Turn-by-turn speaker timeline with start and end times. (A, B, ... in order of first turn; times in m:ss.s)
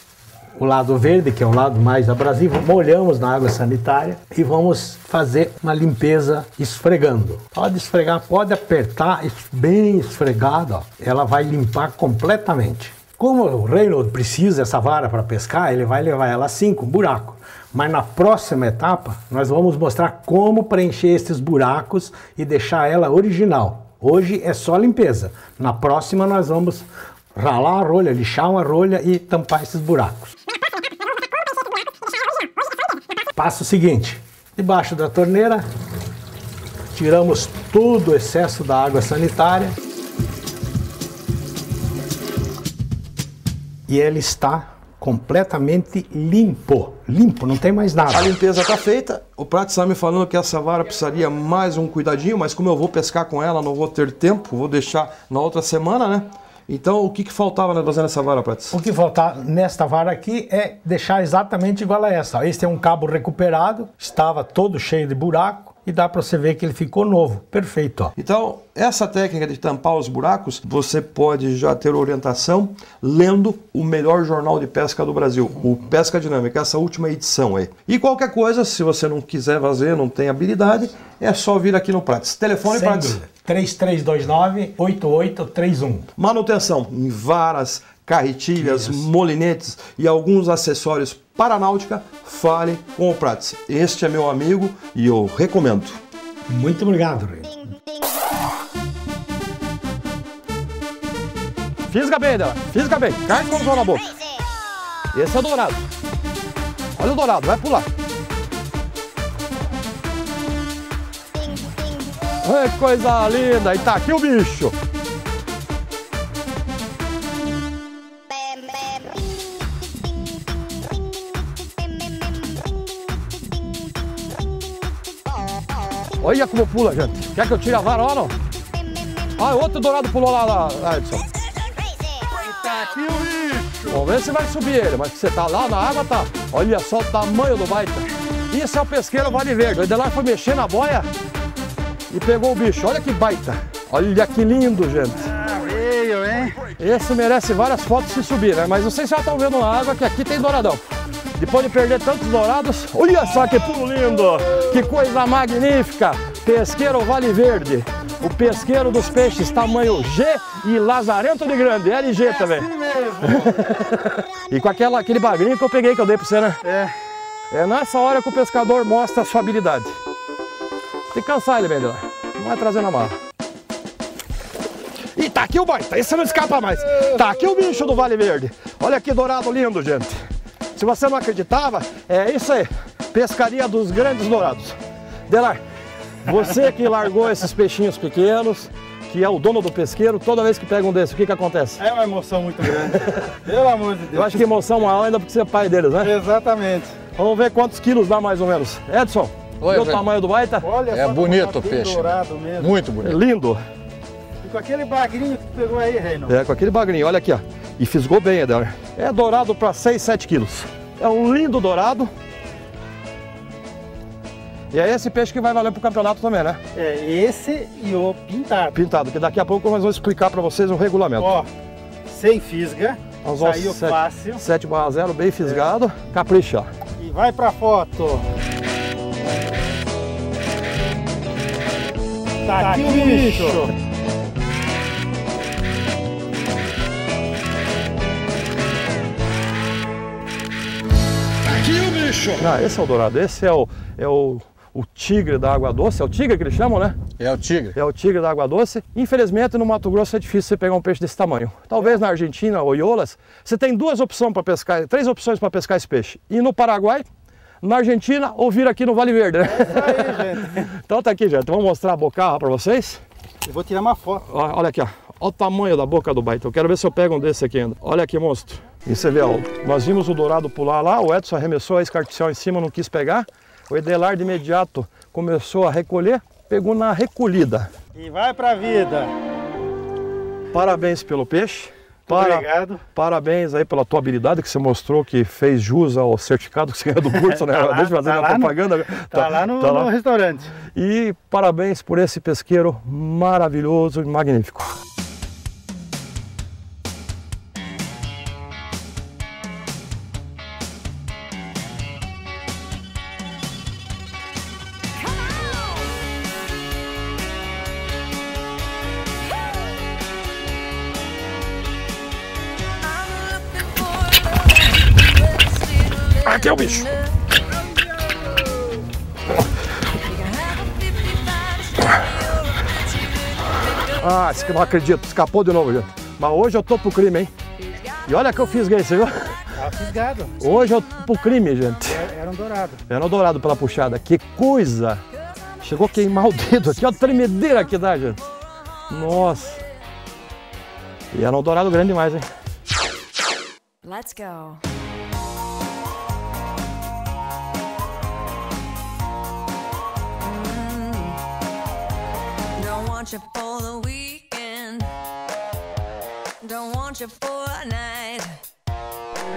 0:00.6-0:30.3 A
0:33.3-0:35.6 A
0:36.9-0:39.7 A
0:43.9-0:48.3 A
0:48.1-0:58.8 B
0:58.7-1:08.1 A
1:08.2-1:23.2 B
1:22.7-1:26.1 A
1:26.2-1:36.0 B
1:28.6-1:29.0 A
1:36.5-1:37.6 A
1:41.9-1:44.2 B
1:45.1-1:45.8 B
1:47.0-1:47.9 B
1:52.4-1:54.8 B
2:06.2-2:08.3 B
2:09.4-2:11.2 B
2:13.2-2:13.6 C
2:13.9-2:21.1 B
2:22.1-2:25.3 B
2:25.6-2:26.6 C
2:26.8-2:30.8 B
2:31.4-2:42.7 B
2:42.7-2:43.4 C
2:43.2-2:46.6 B
2:46.6-2:46.9 C
2:47.5-2:50.0 B
2:51.1-2:53.1 B
2:55.2-3:00.2 B
3:00.7-3:04.8 B
3:05.3-3:05.6 B
3:06.2-3:11.8 B
3:11.8-3:12.9 C
3:12.8-3:13.3 B
3:13.4-3:14.4 C
3:14.1-3:16.1 B
3:16.0-3:17.0 C
3:17.1-3:20.7 B
3:19.6-3:20.0 D
3:20.6-3:22.7 C
3:20.9-3:22.0 D
3:22.6-3:23.1 D
3:23.0-3:23.6 B
3:24.4-3:26.3 C
3:26.3-3:32.1 B
3:34.7-3:36.6 B
3:36.7-3:38.7 C
3:38.7-3:41.4 B
3:41.2-3:41.4 C
3:42.1-3:44.4 C
3:43.2-3:46.7 B
3:47.0-3:48.2 C
3:52.4-3:53.7 C
3:53.0-3:53.6 B
4:01.4-4:07.0 B
4:07.2-4:07.7 D
4:07.7-4:17.0 B
4:17.6-4:23.0 B
4:19.5-4:20.6 C
4:23.5-4:24.2 C
4:24.2-4:37.7 B
4:38.0-4:39.1 C
4:40.5-4:49.9 B
4:42.1-4:42.8 C
4:47.6-4:48.5 C
4:49.2-4:50.5 C
4:50.6-4:54.7 B
5:12.9-5:15.6 E
5:16.2-5:17.0 B
5:20.1-5:22.1 E
5:22.6-5:23.1 E
5:23.8-5:27.3 B
5:28.0-5:29.4 B
5:29.6-5:30.3 C
5:30.4-5:32.0 B
5:31.9-5:32.8 C
5:32.9-5:35.0 B
5:35.6-5:38.2 B
5:38.9-5:39.6 B
5:41.1-5:42.3 B
5:43.8-5:44.6 E
5:50.2-5:51.2 E
5:52.6-5:54.9 E
5:56.4-5:58.4 E